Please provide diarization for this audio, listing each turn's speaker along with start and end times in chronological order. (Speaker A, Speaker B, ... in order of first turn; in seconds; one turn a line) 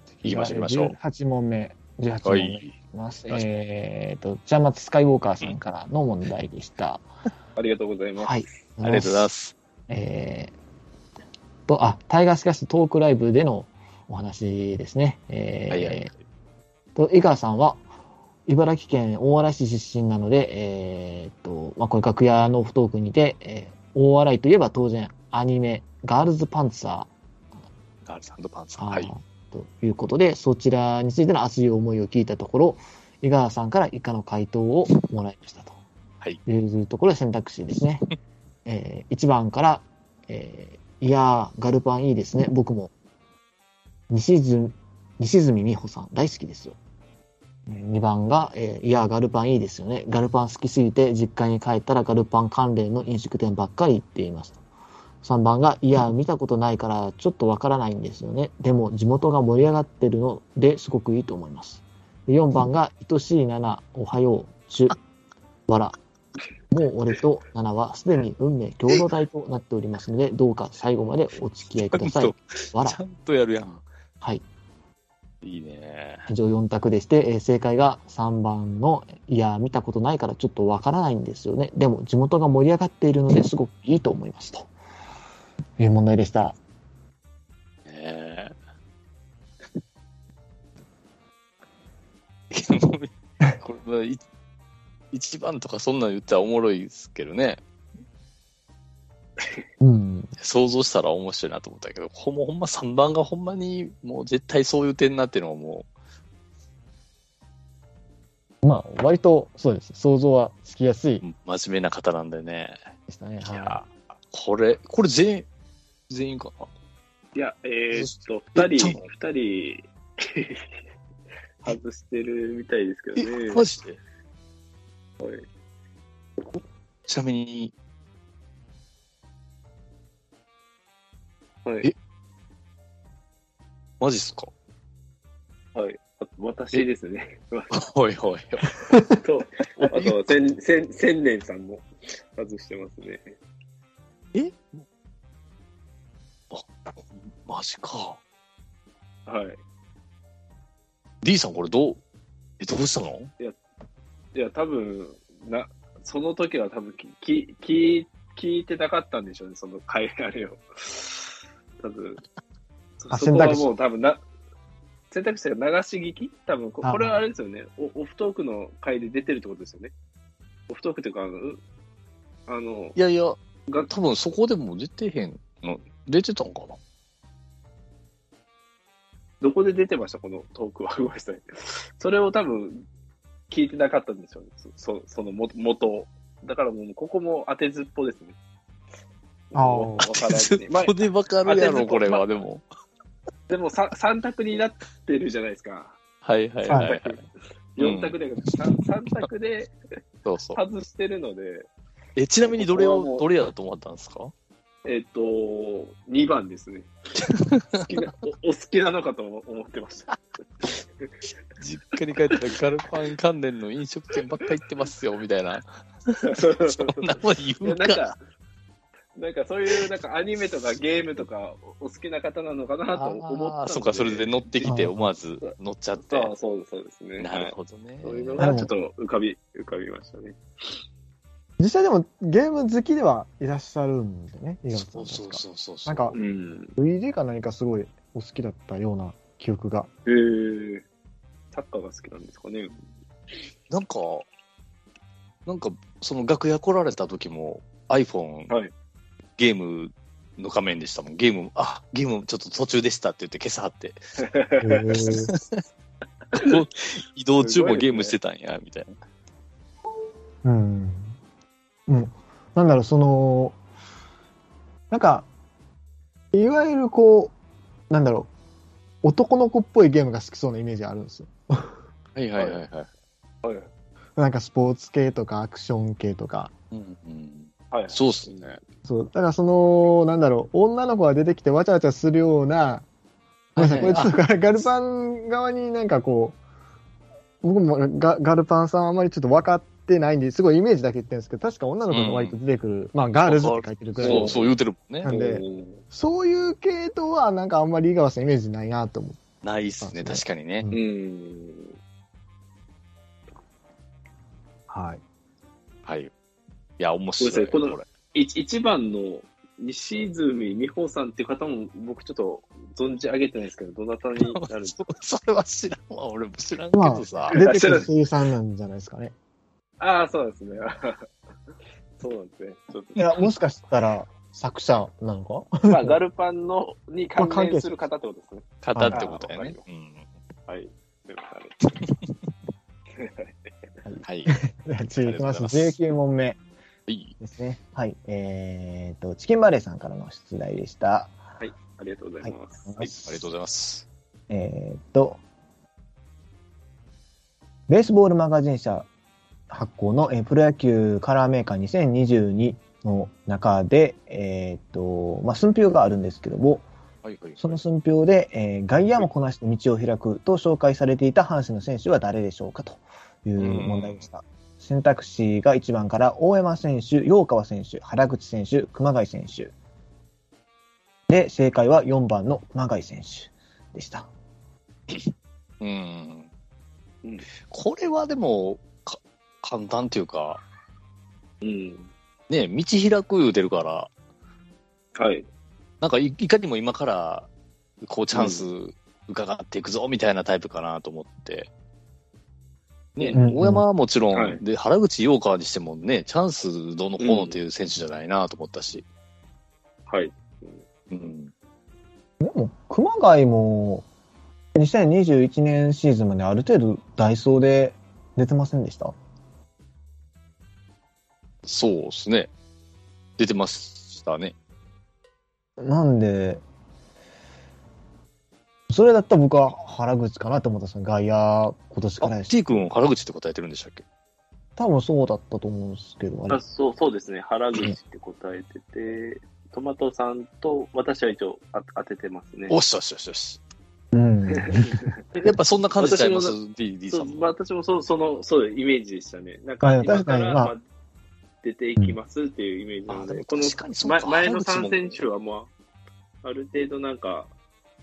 Speaker A: 0.2-1.0
Speaker B: 0.2-7.0
Speaker A: 2.2-2.8
Speaker C: 7.6-8.6
Speaker B: 8.2-9.3
Speaker A: 8.8-9.5
Speaker B: 9.9-10.5
Speaker B: 11.7-16.1
Speaker A: 15.7-16.2
Speaker B: 17.0-17.9
Speaker B: 18.5-27.1
Speaker A: 28.1-29.1
Speaker B: 28.8-35.8
Speaker B: 36.5-38.0
Speaker B: 38.6-42.9
Speaker B: 44.1-46.8
Speaker B: 47.7-54.6
Speaker B: 55.2-65.0
Speaker B: 65.7-66.0
Speaker B: 66.7-73.0
Speaker A: 71.9-73.8
Speaker A: 75.4-76.3
Speaker B: 76.3-84.7
Speaker B: 85.8-86.6
Speaker A: 87.9-88.5
Speaker A: 92.5-94.2
Speaker A: 95.1-97.6
Speaker B: 99.8-100.3
Speaker A: 100.4-105.9
Speaker B: 108.6-111.2
Speaker A: 111.2-112.8
Speaker B: 113.1-113.8
Speaker A: 113.4-115.5
Speaker A: 116.1-116.7
Speaker C: 117.3-120.8
Speaker A: 117.9-119.0
Speaker C: 121.6-123.6
Speaker A: 123.2-124.0
Speaker A: 127.1-127.7
Speaker C: 131.7-131.9
Speaker A: 134.0-134.5
Speaker C: 135.8-137.7
Speaker A: 137.7-138.7
Speaker C: 139.1-143.3
Speaker A: 139.8-140.3
Speaker A: 144.3-144.8
Speaker A: 147.4-148.2
Speaker C: 149.3-149.6
Speaker A: 151.2-152.0
Speaker A: 152.6-153.3
Speaker C: 154.3-162.2
Speaker C: 163.0-164.2
Speaker B: 163.1-163.7
Speaker C: 165.1-169.9
Speaker B: 166.8-167.2
Speaker C: 170.7-171.6
Speaker C: 172.5-173.0
Speaker A: 173.0-176.8
Speaker C: 179.4-182.8
Speaker C: 183.5-188.3
Speaker C: 189.5-192.3
Speaker B: 189.6-190.1
Speaker A: 190.0-192.6
Speaker C: 193.5-196.0
Speaker A: 196.2-197.2
Speaker C: 196.6-197.2
Speaker C: 197.8-199.7
Speaker A: 197.8-198.2
Speaker A: 200.2-200.6
Speaker C: 200.5-201.7
Speaker A: 202.2-204.3
Speaker C: 202.5-203.3
Speaker C: 204.8-206.9
Speaker A: 207.2-208.0
Speaker C: 207.8-211.2
Speaker A: 211.6-218.1
Speaker C: 216.2-218.2
Speaker C: 219.2-224.8
Speaker A: 222.9-226.3
Speaker B: 224.7-225.1
Speaker C: 225.4-230.4
Speaker A: 227.2-228.7
Speaker B: 228.4-228.7
Speaker B: 231.6-236.2
Speaker A: 234.7-236.2
Speaker C: 236.1-236.8
Speaker B: 236.8-239.9
Speaker C: 240.1-240.8
Speaker C: 241.5-242.8
Speaker A: 243.7-244.3
Speaker A: 245.5-248.5
Speaker A: 249.4-254.0
Speaker C: 254.2-255.1
Speaker B: 254.6-255.3
Speaker A: 255.1-255.6
Speaker C: 256.3-256.6
Speaker A: 256.3-258.9
Speaker C: 257.4-258.1
Speaker B: 260.4-261.2
Speaker B: 261.9-263.6
Speaker B: 264.9-265.3
Speaker B: 266.3-267.3
Speaker B: 267.9-268.3
Speaker B: 269.0-271.8
Speaker A: 272.2-272.9
Speaker B: 274.2-276.5
Speaker A: 276.7-278.5
Speaker C: 277.7-278.6
Speaker B: 278.9-282.9
Speaker A: 283.6-284.1
Speaker B: 283.6-286.4
Speaker B: 287.4-294.4
Speaker A: 291.9-292.4
Speaker A: 293.2-295.1
Speaker C: 294.0-294.4
Speaker B: 295.0-299.2
Speaker C: 295.0-295.8
Speaker A: 299.4-300.7
Speaker B: 299.8-300.8
Speaker C: 300.7-301.7
Speaker B: 304.7-305.0
Speaker A: 305.9-306.1
Speaker A: 306.8-307.9
Speaker C: 307.2-314.8
Speaker A: 314.2-317.5
Speaker B: 316.7-319.1
Speaker C: 317.3-317.9
Speaker C: 319.8-321.1
Speaker C: 322.0-323.3
Speaker B: 323.0-326.0
Speaker C: 325.7-329.6
Speaker B: 327.2-327.7
Speaker A: 328.6-330.1
Speaker B: 328.8-329.1
Speaker C: 330.5-331.6
Speaker C: 333.0-333.5
Speaker B: 333.9-336.4
Speaker A: 334.0-334.3
Speaker A: 335.0-335.8
Speaker A: 336.9-337.1
Speaker B: 337.2-341.1
Speaker C: 341.4-342.9
Speaker B: 342.2-343.2
Speaker A: 343.0-343.9
Speaker B: 344.3-345.2
Speaker B: 347.7-348.9
Speaker B: 349.5-356.7
Speaker A: 357.0-357.6
Speaker B: 357.4-369.5
Speaker A: 363.4-364.1
Speaker B: 371.1-374.1
Speaker A: 375.6-376.3
Speaker A: 377.5-380.4
Speaker C: 381.4-381.9
Speaker A: 382.3-383.9
Speaker C: 384.9-385.3
Speaker A: 385.8-387.3
Speaker A: 387.8-391.5
Speaker C: 388.1-388.5
Speaker A: 393.0-398.9
Speaker B: 393.1-393.6
Speaker C: 394.1-394.4
Speaker C: 397.0-397.4
Speaker C: 399.9-400.6
Speaker A: 400.9-401.3
Speaker B: 402.2-403.9
Speaker B: 404.6-408.9
Speaker A: 411.4-412.3
Speaker A: 413.2-414.3
Speaker B: 415.6-416.4
Speaker B: 418.7-422.6
Speaker A: 422.0-423.8
Speaker B: 424.6-426.4
Speaker C: 426.3-432.6
Speaker A: 432.5-433.4
Speaker B: 433.9-434.9
Speaker C: 434.3-436.4
Speaker A: 435.2-437.3
Speaker C: 436.9-440.6
Speaker B: 439.6-440.5
Speaker C: 441.4-445.5
Speaker A: 442.9-445.0
Speaker C: 446.2-447.3